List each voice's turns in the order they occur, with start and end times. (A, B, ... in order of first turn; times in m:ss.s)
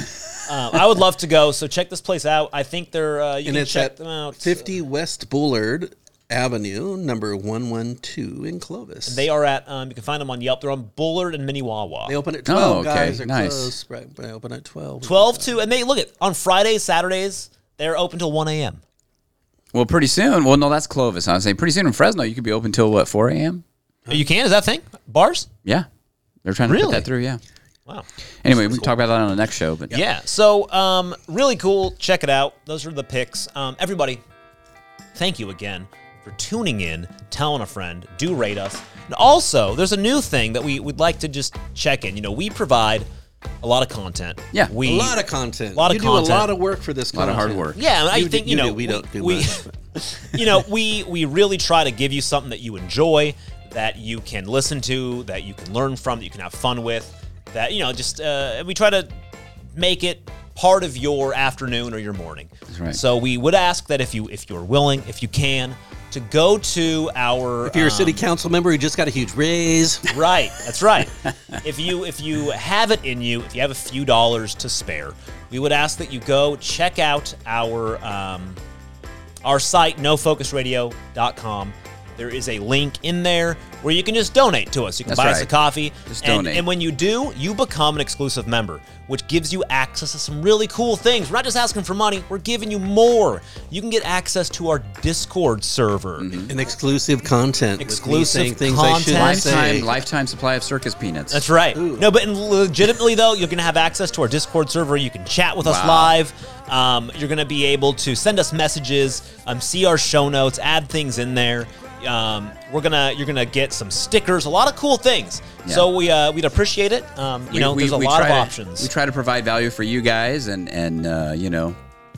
0:00.4-0:04.7 A
0:03.4-0:09.2 B
0:09.0-0:12.2 A
0:12.1-0:15.6 B
0:12.4-0:13.7 C
0:15.0-0:18.8 A
0:19.7-0:23.6 C
0:24.1-0:25.5 A
0:26.4-0:27.4 C
0:26.7-0:27.1 A
0:27.8-0:28.9 A
0:28.4-0:30.0 C
0:29.9-0:34.2 A
0:35.1-0:43.1 A
0:43.6-0:45.2 A
0:44.8-0:49.8 B
0:45.7-0:46.5 A
0:47.1-0:47.8 C
0:47.7-0:49.6 A
0:50.2-0:59.1 A
0:59.7-1:08.2 A
1:02.7-1:03.0 C
1:07.6-1:10.1 B
1:10.1-1:18.6 A
1:19.4-1:36.3 A
1:25.1-1:25.5 C
1:26.0-1:26.6 C
1:36.2-1:36.5 C
1:36.5-1:39.9 B
1:37.8-1:39.8 A
1:39.1-1:41.4 C
1:41.3-1:58.9 A
1:41.7-1:42.0 B
1:45.6-1:46.1 C
1:57.5-2:01.8 C